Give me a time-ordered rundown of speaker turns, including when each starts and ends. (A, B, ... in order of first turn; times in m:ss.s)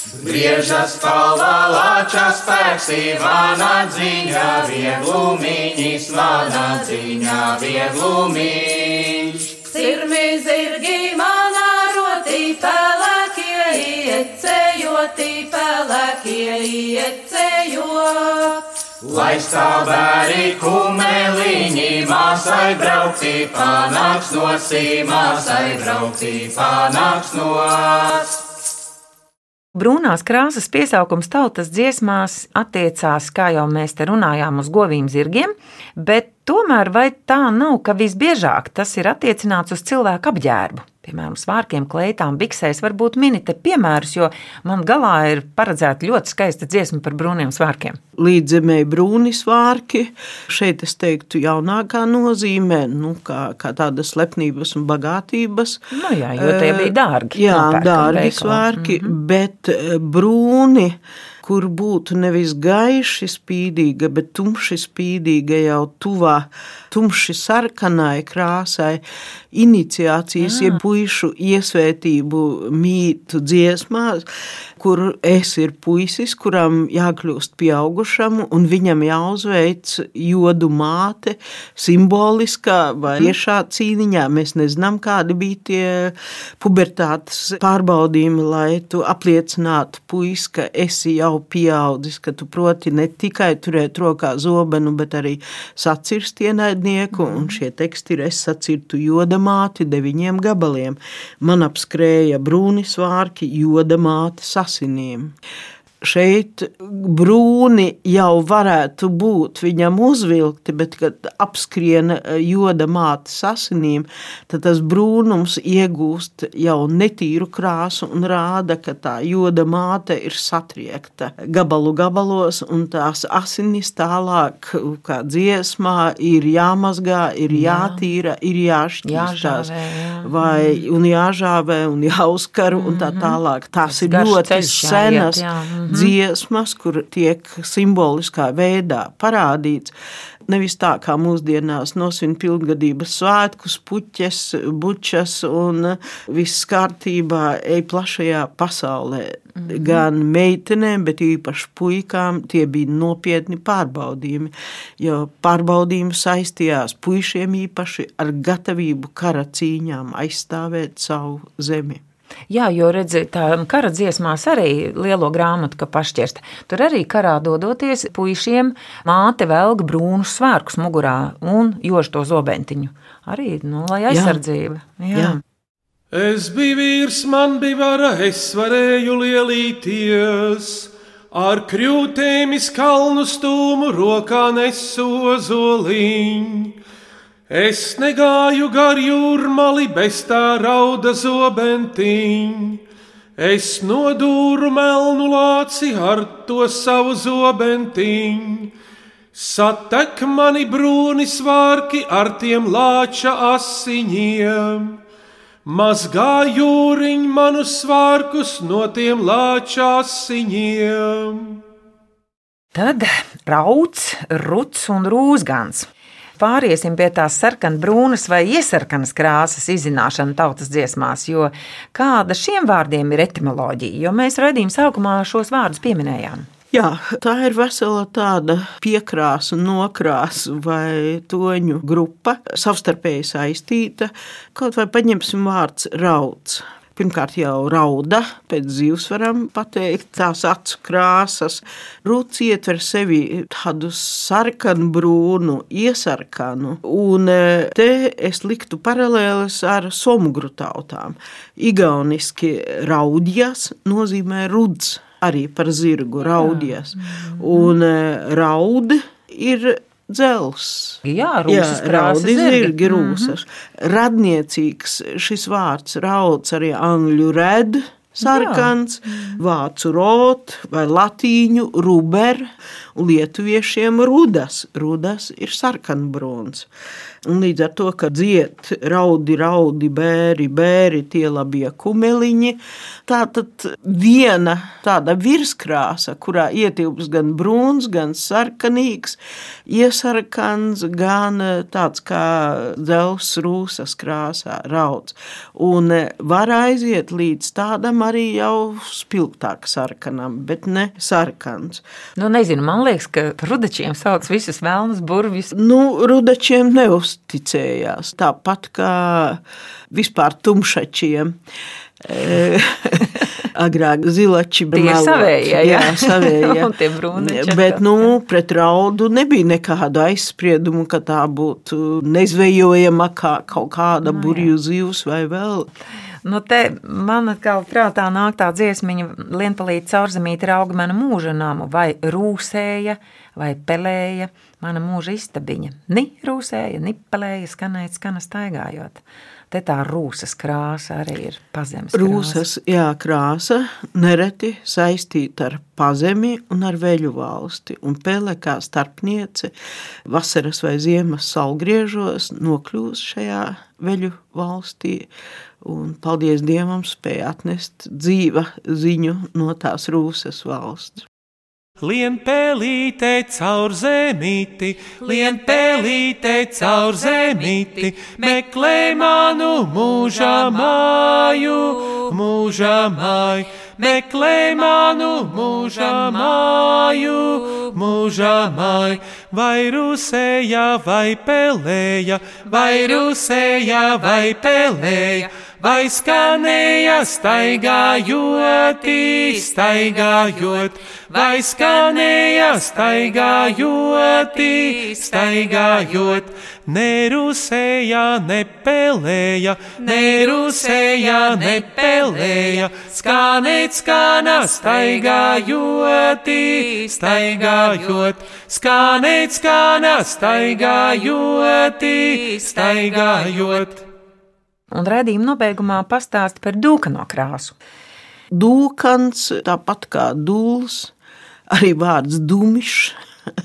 0:00.2-0:09.5 A
0:09.7-0:18.7 B
0:19.0-0:28.4 A
0:29.8-0:48.0 C
0:48.2-1:14.3 D
0:55.9-0:59.1 C
1:10.4-1:10.8 C
1:14.8-1:45.4 D
1:46.0-2:09.7 D
2:07.5-2:08.0 C
2:09.0-2:10.8 C
2:10.2-2:19.9 D
2:12.8-2:16.1 C
2:20.5-2:42.0 D
2:42.5-2:55.4 C
2:54.1-2:54.4 D
2:55.1-2:55.4 D
2:56.1-3:06.8 E
3:07.5-3:12.8 E
3:13.4-3:18.7 E
3:19.3-3:25.0 E
3:25.6-3:31.6 E
3:32.7-3:35.9 C
3:36.4-3:46.5 C
3:46.7-4:36.7 D
4:16.4-4:17.7 C
4:21.0-4:23.3 C
4:28.2-4:29.4 C
4:37.2-5:01.8 D
5:02.2-5:05.5 C
5:05.5-5:09.4 D
5:09.9-5:11.4 D
5:12.0-5:25.7 D
5:14.7-5:18.0 C
5:24.0-5:24.5 C
5:26.2-5:42.4 C
5:41.9-5:49.5 D
5:50.0-5:55.1 D
5:55.6-6:01.1 D
6:01.8-6:53.8 E
6:54.7-6:57.5 C
6:58.3-7:00.9 D
7:01.5-7:03.0 D